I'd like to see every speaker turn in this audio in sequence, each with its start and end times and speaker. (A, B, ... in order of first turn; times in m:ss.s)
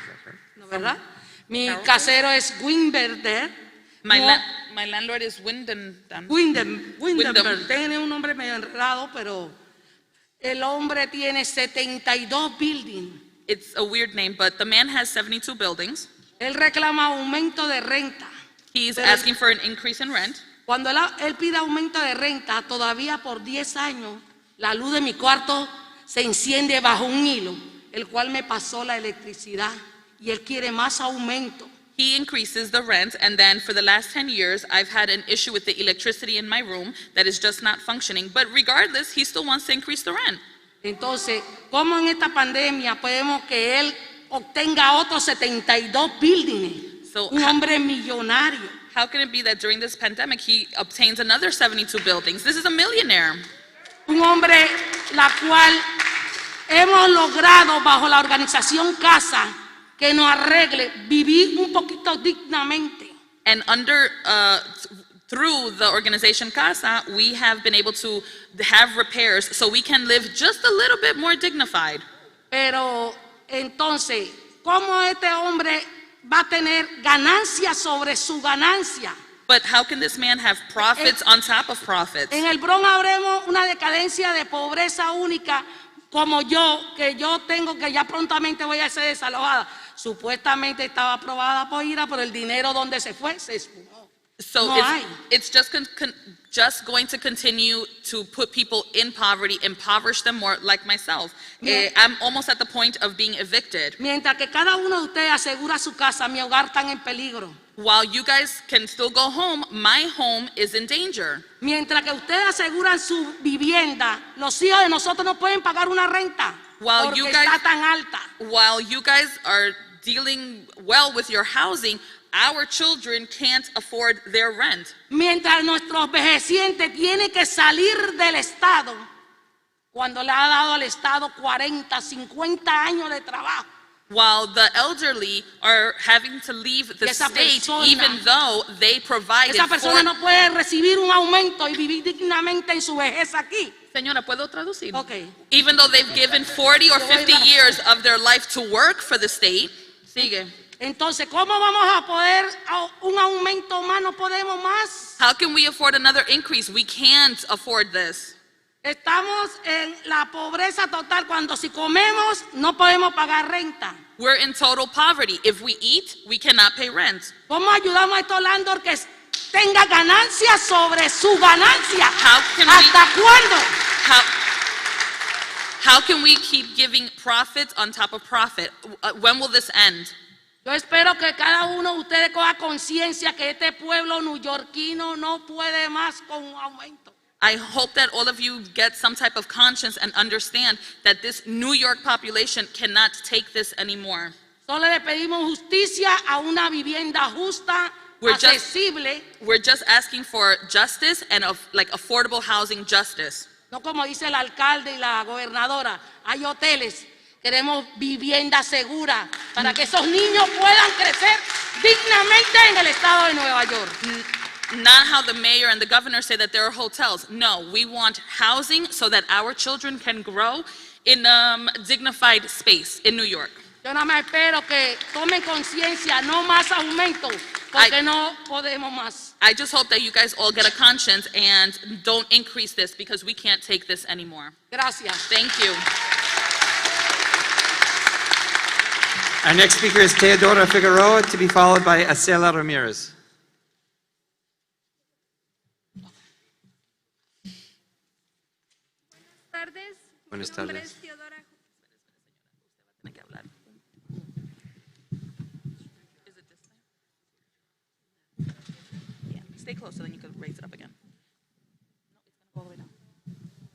0:00.6-0:03.5 A
0:01.7-0:01.9 B
0:04.0-0:06.3 B
0:04.1-0:04.4 A
0:06.3-0:09.5 A
0:07.1-0:07.7 B
0:10.4-0:13.2 A
0:13.5-0:16.1 B
0:16.4-0:18.3 A
0:18.7-0:20.4 B
0:19.0-0:19.3 A
0:20.7-0:31.7 A
0:32.0-0:40.4 B
0:40.8-0:48.7 A
0:47.0-0:47.6 B
0:48.9-0:53.4 B
0:54.1-0:55.9 A
0:56.7-1:03.1 A
1:03.4-1:12.0 B
1:12.5-1:19.1 A
1:19.5-1:22.4 B
1:20.8-1:21.1 A
1:22.3-1:35.2 A
1:34.4-1:44.0 B
1:41.6-1:41.9 A
1:44.0-1:47.6 A
1:47.8-1:51.4 B
1:51.6-1:58.3 A
1:56.8-1:57.6 B
1:58.4-2:04.9 B
2:05.1-2:09.1 A
2:09.9-2:13.7 A
2:14.1-2:20.1 B
2:17.0-2:18.2 A
2:19.5-2:23.7 A
2:23.9-2:30.5 B
2:24.9-2:25.3 A
2:27.0-2:27.5 A
2:30.8-2:35.2 A
2:35.2-2:38.4 B
2:38.8-2:44.0 A
2:44.2-2:47.3 B
2:47.5-2:53.8 A
2:52.2-2:53.0 B
2:54.0-2:54.3 B
2:55.8-3:00.1 B
3:00.6-3:07.2 A
3:07.4-3:14.3 B
3:14.7-3:19.3 A
3:18.2-3:18.6 B
3:19.4-3:23.5 B
3:23.7-3:34.0 A
3:34.0-3:43.6 B
3:43.8-3:49.3 A
3:49.4-3:54.5 B
3:54.7-3:55.2 A
3:55.3-3:55.8 B
3:59.4-4:03.1 C
4:09.5-4:11.5 D
4:10.3-4:10.9 C
4:12.4-4:13.8 B
4:16.2-4:16.8 B
4:19.3-4:21.0 B
4:22.2-4:22.9 B